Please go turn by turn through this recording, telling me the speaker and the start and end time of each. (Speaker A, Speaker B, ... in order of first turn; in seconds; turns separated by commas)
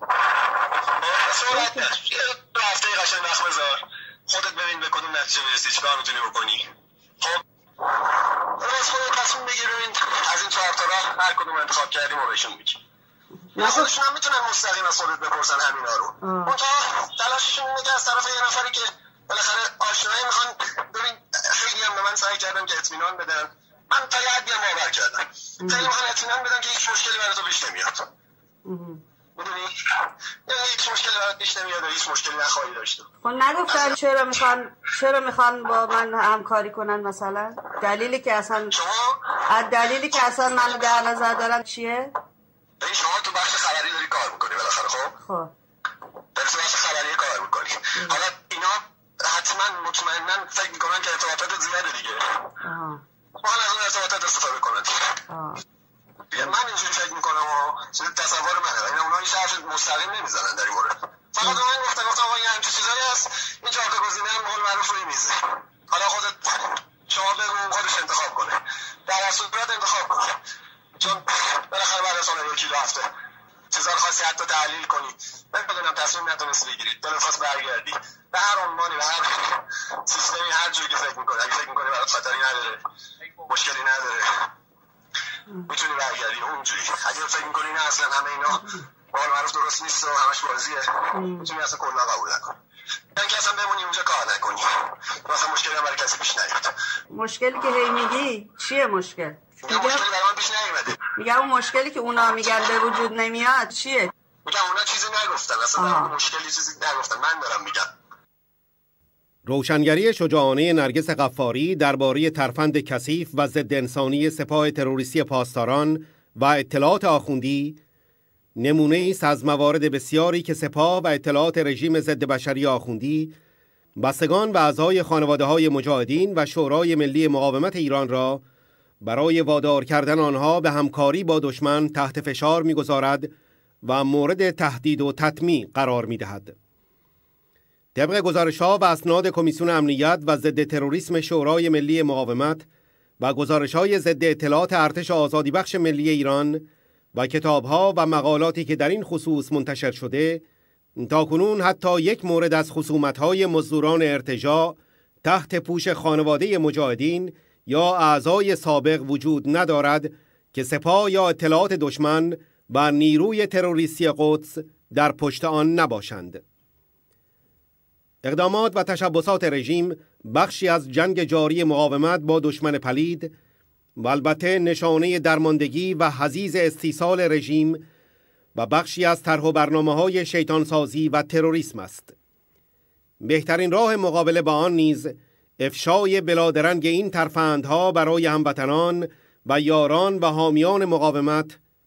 Speaker A: 1.0-6.7, Speaker B: 1.5-1.9, Speaker A: 8.5-12.8, Speaker A: 13.5-28.0, Speaker B: 13.6-13.9, Speaker B: 16.2-16.5, Speaker B: 25.6-25.9, Speaker B: 28.6-29.0, Speaker A: 29.4-29.9, Speaker A: 30.5-33.1, Speaker B: 33.2-38.7, Speaker A: 33.6-34.4, Speaker A: 38.7-39.3, Speaker B: 39.5-42.1, Speaker A: 39.9-41.0, Speaker A: 42.8-45.1, Speaker B: 45.2-45.5, Speaker A: 46.3-52.5, Speaker B: 52.6-53.0, Speaker A: 53.4-55.1, Speaker B: 55.3-55.6, Speaker A: 56.3-70.4, Speaker A: 71.0-73.1, Speaker A: 73.7-82.8, Speaker A: 83.5-84.5, Speaker A: 85.7-92.6, Speaker B: 88.5-88.8, Speaker B: 91.1-91.5, Speaker A: 93.1-96.7, Speaker B: 97.1-100.0, Speaker A: 99.6-101.0, Speaker B: 101.2-104.1, Speaker A: 104.4-107.9, Speaker B: 105.8-106.1, Speaker C: 109.5-117.8, Speaker C: 118.6-123.3, Speaker C: 124.0-128.4, Speaker C: 129.0-133.3, Speaker C: 133.8-136.6, Speaker C: 137.9-142.7, Speaker C: 143.2-150.4, Speaker C: 151.0-166.4, Speaker C: 168.2-173.3, Speaker C: 174.0-177.8, Speaker C: 178.5-182.1, Speaker C: 183.2-191.6